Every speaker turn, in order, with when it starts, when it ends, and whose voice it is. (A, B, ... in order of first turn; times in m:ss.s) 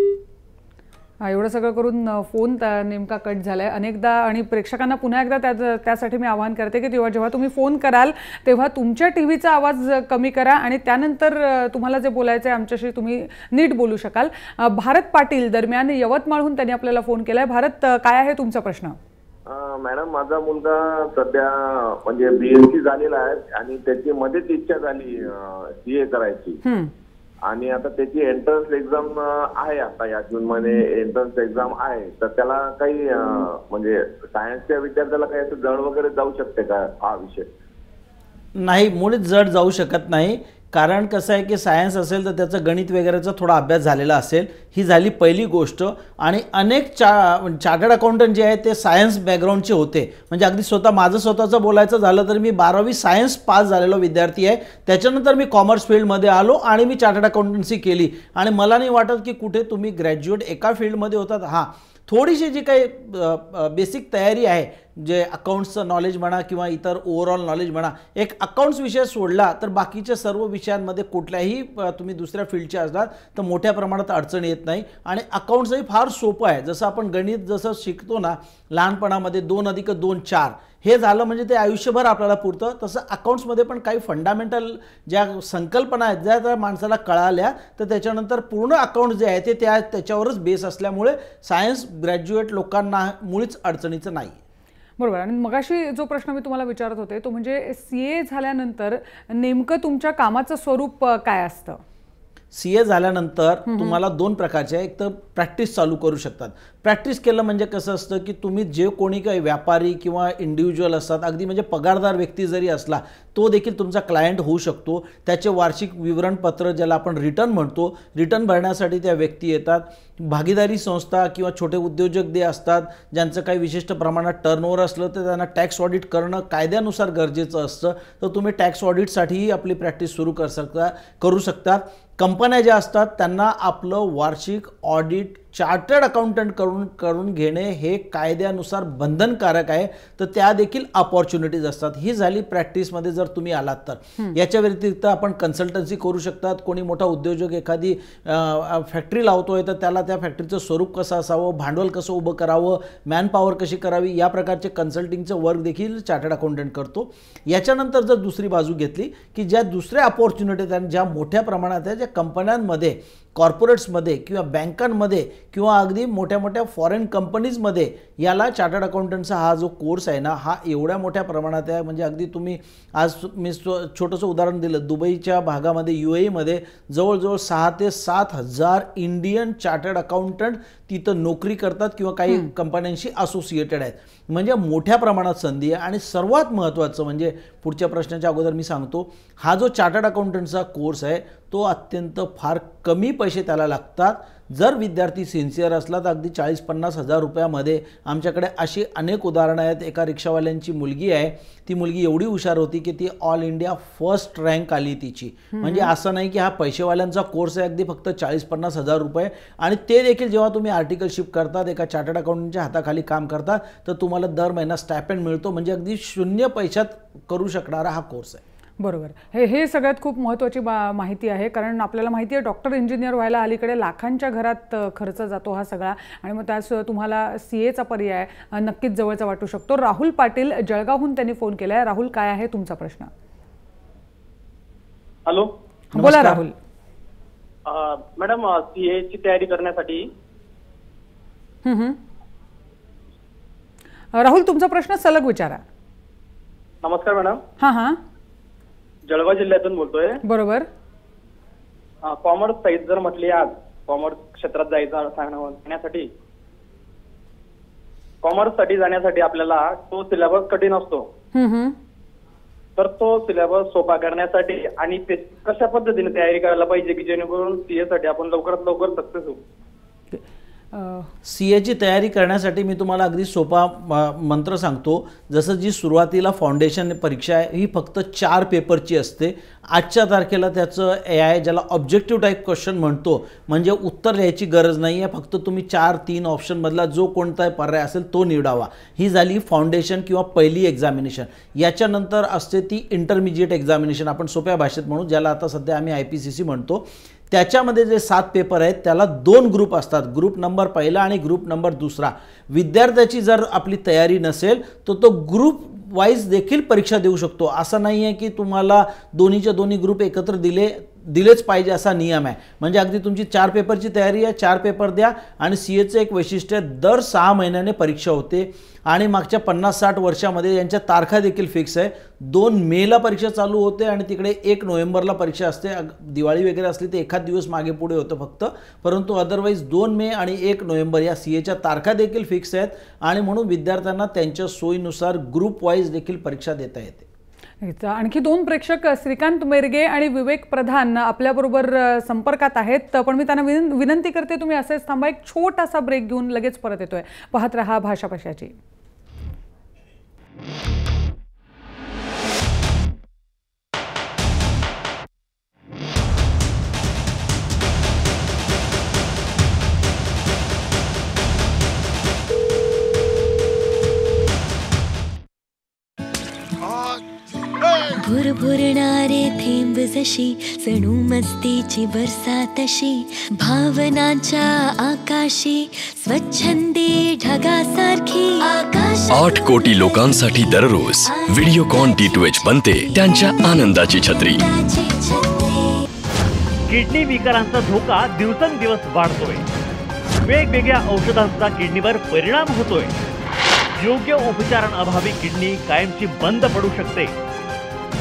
0:01.2-0:19.0 A
0:19.5-0:26.6 B
0:26.6-0:26.9 A
0:27.5-0:37.5 B
0:38.5-1:34.4 C
1:35.0-1:41.8 A
1:42.5-3:38.4 C
1:43.7-1:44.0 A
3:25.5-3:25.9 A
3:38.8-3:53.1 A
3:55.2-3:55.5 D
3:55.9-3:56.6 A
3:55.9-3:56.4 C
3:57.6-4:00.1 D
4:01.6-4:02.0 A
4:04.1-4:05.6 A
4:06.8-4:07.4 D
4:07.6-4:08.0 A
4:09.1-4:10.2 D
4:10.2-4:10.7 A
4:12.0-4:16.1 D
4:18.2-4:21.1 D
4:21.3-4:21.8 A
4:22.8-4:29.4 D
4:30.1-4:31.1 A
4:31.2-5:37.1 C
5:37.6-5:48.5 A
6:07.9-6:19.8 E
6:19.1-6:24.4 F
6:21.0-6:22.0 E
6:22.7-6:23.5 E
6:24.2-6:25.8 E
6:26.7-6:29.4 G
6:30.2-6:32.9 G
6:33.8-6:37.1 G